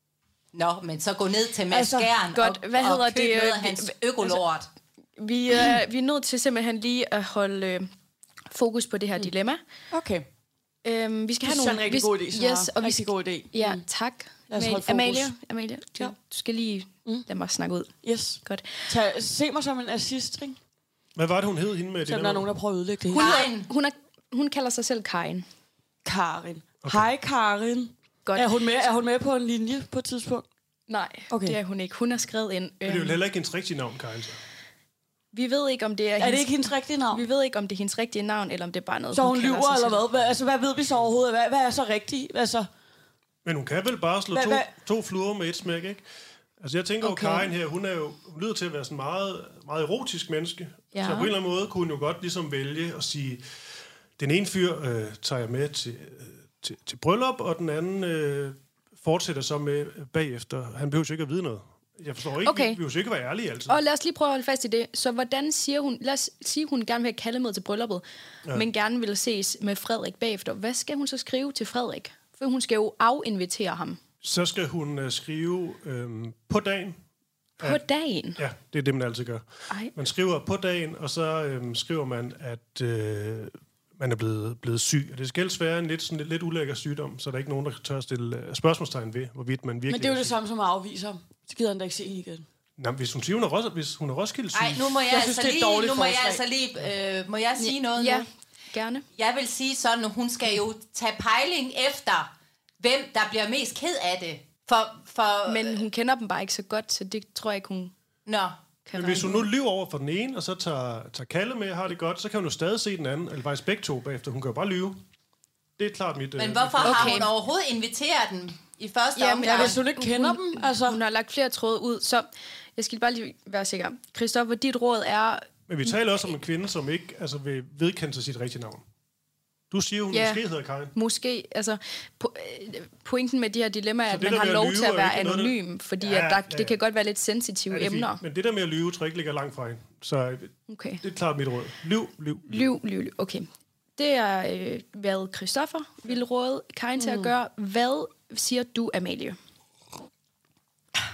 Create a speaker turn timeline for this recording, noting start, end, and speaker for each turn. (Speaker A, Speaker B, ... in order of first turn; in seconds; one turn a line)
Speaker A: 0.5-4.7
Speaker B: 1.7-2.1
Speaker C: 2.4-4.4
Speaker C: 5.2-7.9
Speaker C: 8.5-9.6
Speaker B: 9.9-10.3
Speaker C: 10.8-18.7
Speaker B: 11.4-13.8
Speaker B: 14.5-15.3
Speaker B: 18.0-20.6
Speaker D: 21.1-22.5
Speaker B: 22.1-23.4
Speaker A: 23.1-23.7
Speaker C: 23.1-25.5
Speaker B: 26.1-30.5
Speaker C: 30.9-33.2
Speaker B: 31.3-31.6
Speaker D: 32.9-34.4
Speaker C: 35.3-36.5
Speaker B: 36.2-37.2
Speaker C: 37.1-40.0
Speaker B: 39.1-42.7
Speaker D: 43.4-46.0
Speaker B: 44.3-44.7
Speaker D: 46.6-53.4
Speaker C: 47.0-47.5
Speaker C: 50.9-51.3
Speaker D: 54.2-63.8
Speaker C: 62.5-62.8
Speaker C: 63.7-74.0
Speaker D: 74.2-77.0
Speaker C: 77.6-78.4
Speaker D: 78.4-90.4
Speaker B: 89.9-92.5
Speaker D: 92.8-94.9
Speaker A: 94.5-98.3
Speaker B: 95.1-96.4
Speaker C: 97.6-99.1
Speaker A: 99.2-105.8
Speaker C: 105.5-107.9
Speaker A: 108.3-108.6
Speaker C: 108.8-109.5
Speaker D: 109.0-115.0
Speaker D: 115.8-117.3
Speaker A: 116.4-119.8
Speaker C: 116.8-117.3
Speaker C: 119.2-125.9
Speaker B: 119.4-121.0
Speaker D: 125.7-128.8
Speaker D: 129.7-130.9
Speaker C: 130.1-130.4
Speaker C: 130.9-138.2
Speaker D: 134.1-136.8
Speaker D: 137.7-142.7
Speaker C: 140.7-141.0
Speaker C: 142.5-149.4
Speaker B: 147.0-147.3